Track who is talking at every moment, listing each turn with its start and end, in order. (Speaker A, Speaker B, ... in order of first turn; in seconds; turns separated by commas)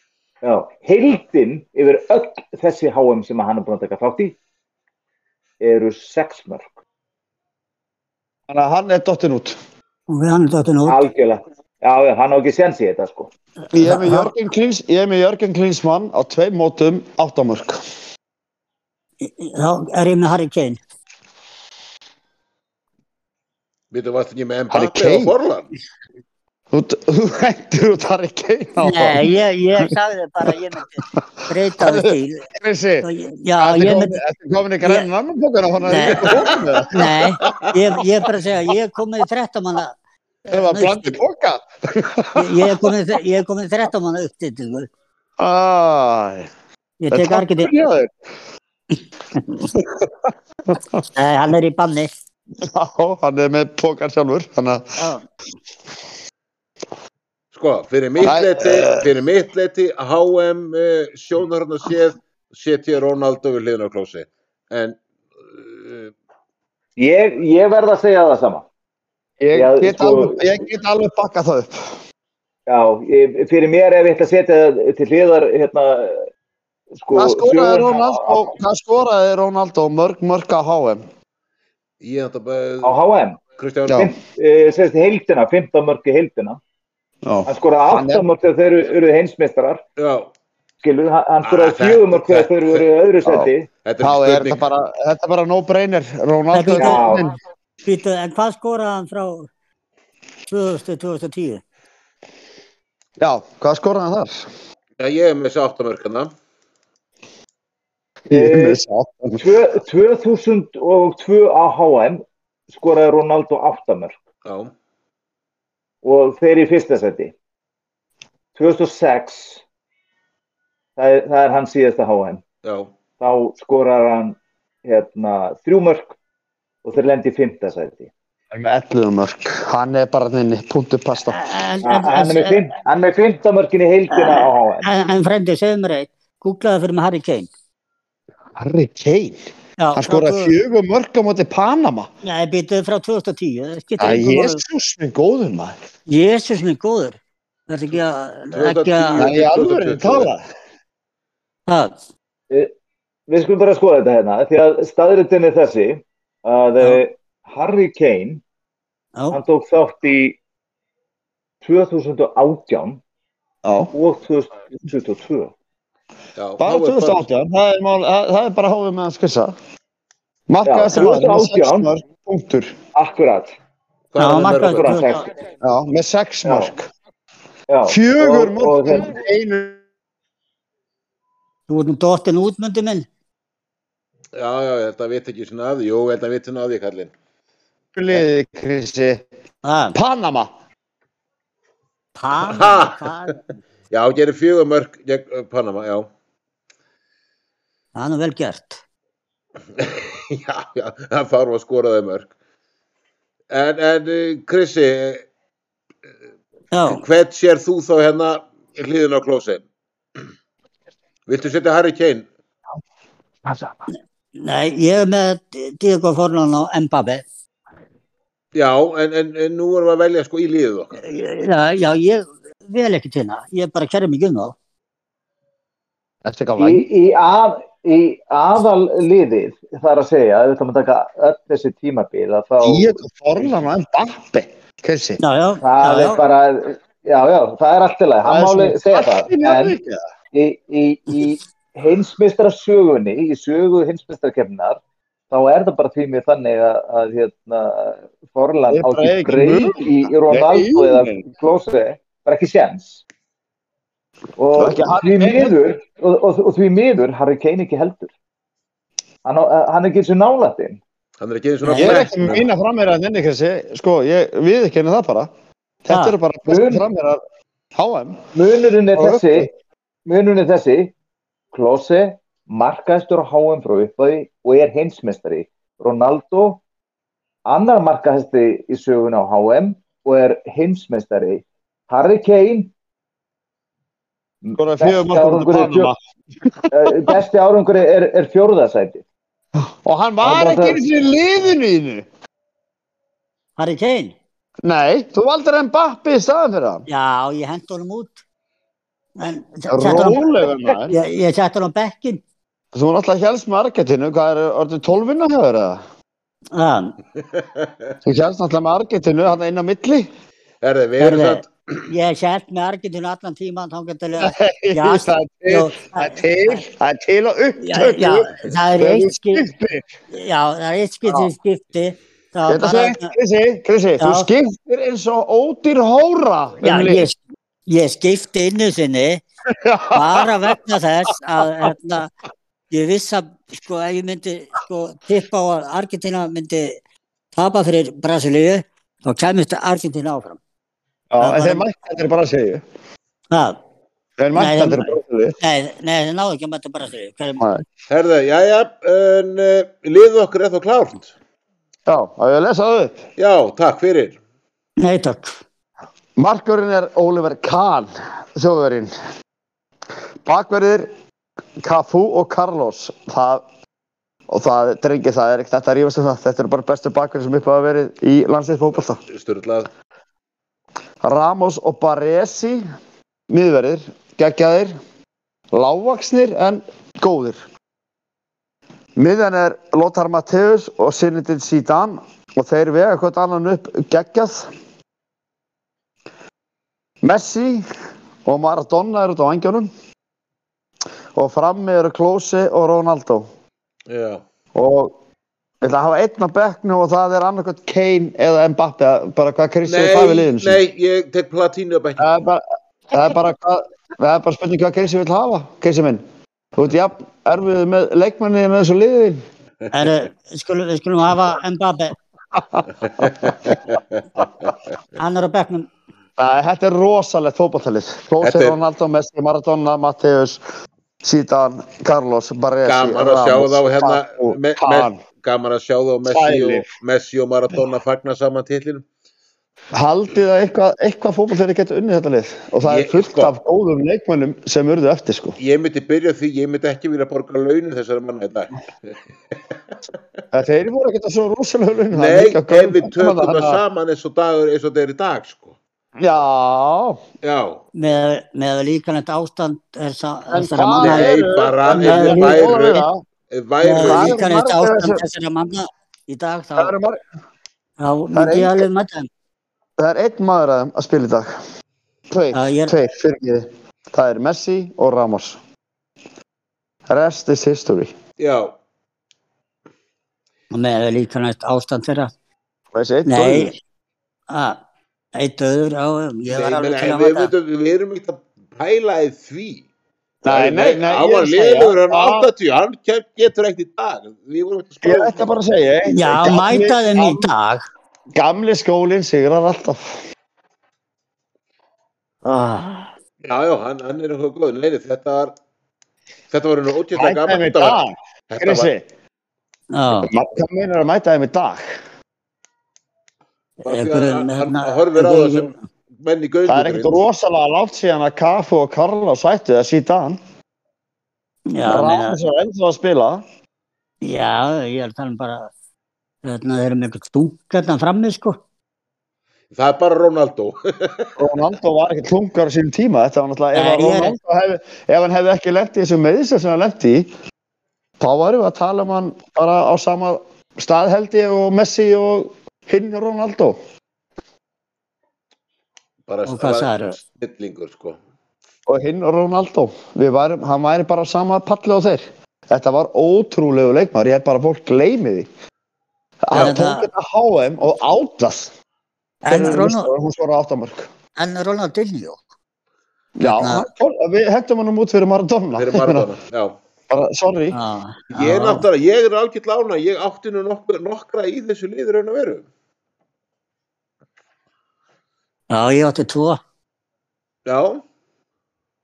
Speaker A: 0.4-4.4, Speaker A: 5.6-6.7, Speaker B: 8.5-9.6, Speaker C: 10.1-11.0, Speaker A: 10.9-13.3, Speaker C: 13.7-14.3, Speaker B: 13.7-17.8, Speaker C: 19.2-20.8, Speaker D: 23.9-25.7, Speaker B: 24.7-25.3, Speaker B: 26.7-29.3, Speaker C: 28.8-32.5, Speaker B: 31.8-33.1, Speaker C: 33.0-34.2, Speaker B: 33.6-37.3, Speaker C: 34.8-35.1, Speaker C: 35.9-36.4, Speaker D: 36.2-36.6, Speaker C: 36.9-40.0, Speaker C: 40.5-41.2, Speaker B: 40.5-42.9, Speaker C: 42.3-44.9, Speaker B: 45.4-46.5, Speaker C: 47.0-47.7, Speaker B: 47.1-48.1, Speaker B: 49.8-50.1, Speaker B: 50.7-51.0, Speaker C: 51.1-52.1, Speaker B: 52.6-54.8, Speaker C: 55.0-55.2, Speaker D: 57.5-66.1, Speaker B: 58.2-59.1, Speaker A: 67.0-68.7, Speaker B: 69.4-72.0, Speaker A: 69.5-70.5, Speaker A: 72.7-76.3, Speaker A: 77.0-78.5, Speaker B: 77.1-81.0, Speaker D: 82.0-83.0, Speaker A: 82.8-83.4, Speaker D: 83.6-84.1, Speaker A: 83.9-86.6, Speaker B: 87.2-88.2, Speaker A: 87.5-89.8, Speaker D: 90.0-90.3, Speaker A: 90.8-93.7, Speaker D: 91.4-92.8, Speaker B: 93.2-97.3, Speaker D: 93.8-94.6, Speaker C: 96.5-97.1, Speaker A: 96.8-97.3, Speaker C: 97.8-99.5, Speaker C: 100.5-101.6, Speaker B: 103.2-104.5, Speaker D: 105.0-106.3, Speaker B: 108.3-109.4, Speaker A: 108.3-108.8, Speaker A: 109.4-114.2, Speaker D: 114.5-114.7, Speaker A: 116.0-117.3, Speaker A: 118.5-119.6, Speaker A: 121.0-122.4, Speaker D: 122.6-122.9, Speaker A: 123.2-126.2, Speaker A: 126.8-128.1, Speaker B: 128.5-131.4, Speaker C: 131.3-132.7, Speaker A: 131.8-134.9, Speaker C: 134.1-137.5, Speaker B: 138.6-139.4, Speaker C: 139.8-140.6, Speaker B: 139.9-142.1, Speaker C: 142.2-144.6, Speaker B: 144.0-145.8, Speaker C: 146.1-147.2, Speaker C: 147.7-149.3, Speaker D: 148.5-150.3, Speaker B: 149.2-150.4, Speaker C: 151.7-151.9, Speaker A: 153.3-158.4, Speaker A: 159.3-160.4, Speaker A: 161.6-163.0, Speaker B: 163.7-163.9, Speaker A: 163.9-165.5, Speaker D: 166.4-167.2, Speaker B: 166.6-169.6, Speaker B: 170.5-172.8, Speaker A: 170.7-171.9, Speaker A: 172.9-173.5, Speaker D: 174.1-175.0, Speaker C: 174.2-175.2, Speaker A: 174.7-175.3, Speaker B: 175.6-176.9, Speaker A: 176.4-176.7, Speaker A: 177.7-179.1, Speaker B: 177.9-179.8, Speaker C: 181.7-183.1, Speaker D: 184.3-187.1, Speaker B: 187.9-189.2, Speaker C: 189.6-190.0, Speaker B: 189.9-190.5, Speaker C: 192.2-193.4, Speaker D: 192.4-193.1, Speaker D: 193.9-196.1, Speaker C: 197.9-198.8, Speaker D: 199.8-202.3, Speaker D: 203.5-205.2, Speaker C: 206.7-207.0, Speaker D: 206.9-209.6, Speaker D: 211.3-212.3, Speaker C: 214.4-217.2, Speaker D: 218.5-221.0, Speaker C: 221.0-224.5, Speaker B: 226.2-226.9, Speaker A: 226.6-232.9, Speaker B: 232.6-235.2, Speaker C: 235.2-236.2, Speaker A: 235.6-239.8, Speaker B: 238.2-240.0, Speaker A: 240.3-244.8, Speaker A: 245.3-253.0, Speaker B: 248.7-251.3, Speaker A: 254.4-258.1, Speaker B: 254.6-255.6, Speaker A: 259.2-260.8, Speaker D: 261.2-262.5, Speaker C: 261.6-261.9, Speaker B: 261.7-265.3, Speaker B: 265.9-267.2, Speaker C: 265.9-266.2, Speaker A: 266.5-266.8, Speaker B: 267.8-268.3, Speaker A: 268.3-269.5, Speaker B: 268.9-269.5, Speaker A: 270.1-270.9, Speaker A: 271.5-276.6, Speaker A: 277.5-282.7, Speaker A: 284.4-285.9, Speaker B: 284.6-286.0, Speaker B: 286.5-287.2, Speaker A: 286.7-289.0, Speaker B: 289.6-292.1, Speaker A: 290.2-290.8, Speaker C: 293.6-294.2, Speaker B: 294.6-296.9, Speaker C: 296.9-298.2, Speaker C: 299.2-302.2, Speaker B: 299.7-300.9, Speaker B: 302.7-305.8, Speaker C: 306.5-307.0, Speaker D: 307.3-307.7, Speaker B: 308.0-310.1, Speaker D: 310.6-311.8, Speaker C: 311.0-316.6, Speaker B: 314.2-319.9, Speaker C: 317.6-319.4, Speaker C: 320.1-323.1, Speaker B: 322.5-327.1, Speaker C: 324.0-324.3, Speaker C: 326.6-327.2, Speaker C: 327.7-329.2, Speaker B: 329.5-330.6, Speaker C: 329.9-332.1, Speaker C: 332.7-336.8, Speaker C: 337.3-340.4, Speaker B: 341.1-342.6, Speaker C: 341.2-341.6, Speaker C: 343.3-343.6, Speaker B: 344.2-345.4, Speaker C: 344.3-347.4, Speaker B: 347.4-347.6, Speaker D: 347.9-351.1, Speaker B: 351.9-353.0, Speaker D: 353.2-354.2, Speaker C: 354.8-355.4, Speaker B: 356.2-358.9, Speaker B: 360.2-360.9, Speaker B: 361.6-363.4, Speaker B: 364.3-369.0, Speaker D: 369.1-369.7, Speaker B: 371.0-372.6, Speaker B: 373.3-374.8, Speaker B: 375.5-377.4, Speaker B: 379.0-384.5, Speaker B: 387.0-387.6, Speaker B: 388.2-389.7, Speaker B: 391.1-393.3, Speaker D: 393.9-394.2, Speaker B: 394.5-394.9, Speaker B: 395.6-400.6, Speaker D: 399.7-402.1, Speaker B: 402.0-406.0, Speaker B: 406.6-409.2, Speaker C: 409.7-412.0, Speaker B: 412.4-413.3, Speaker D: 413.0-413.8, Speaker C: 415.0-415.7, Speaker B: 416.2-420.4, Speaker D: 418.2-418.6, Speaker B: 421.0-425.0, Speaker D: 422.6-428.9, Speaker B: 426.1-426.7, Speaker B: 429.7-435.4, Speaker D: 432.7-433.3, Speaker D: 435.4-439.0, Speaker B: 440.3-443.6, Speaker D: 441.9-445.6, Speaker B: 446.0-447.0, Speaker D: 447.2-447.6, Speaker C: 447.7-451.1, Speaker B: 450.3-453.0, Speaker D: 450.8-454.2, Speaker C: 451.8-452.5, Speaker C: 453.6-456.7, Speaker B: 453.8-455.0, Speaker B: 456.6-457.0, Speaker C: 457.8-459.1, Speaker B: 458.1-458.7, Speaker B: 459.8-461.3, Speaker B: 462.1-465.4, Speaker C: 462.3-462.8, Speaker B: 466.9-467.9, Speaker D: 468.2-468.5, Speaker C: 470.5-472.1, Speaker B: 472.7-473.6, Speaker C: 473.1-473.6, Speaker C: 474.3-474.6, Speaker C: 475.1-477.3, Speaker D: 476.3-479.6, Speaker B: 480.2-482.3, Speaker D: 480.3-485.3, Speaker B: 484.8-487.2, Speaker C: 485.9-487.6, Speaker B: 488.2-490.0, Speaker C: 492.2-492.9, Speaker D: 493.2-495.3, Speaker D: 496.3-498.7, Speaker B: 496.9-498.8, Speaker C: 499.7-500.1, Speaker B: 500.0-501.7, Speaker C: 503.6-505.6, Speaker D: 503.6-507.0, Speaker B: 506.5-510.2, Speaker C: 511.5-512.2, Speaker B: 511.6-513.2, Speaker C: 514.0-515.5, Speaker C: 516.2-518.4, Speaker D: 519.5-521.1, Speaker B: 521.2-527.1, Speaker C: 523.5-524.2, Speaker B: 528.0-533.6, Speaker D: 536.1-538.0, Speaker C: 536.3-537.0, Speaker B: 538.7-545.3, Speaker B: 546.2-548.5, Speaker C: 546.3-546.9, Speaker C: 549.2-549.9, Speaker B: 549.3-550.9, Speaker C: 551.2-552.2, Speaker B: 553.2-556.1, Speaker C: 553.2-553.7, Speaker D: 555.5-556.6, Speaker B: 556.9-557.6, Speaker C: 557.5-558.7, Speaker D: 558.1-562.5, Speaker C: 565.5-566.4, Speaker D: 567.5-567.8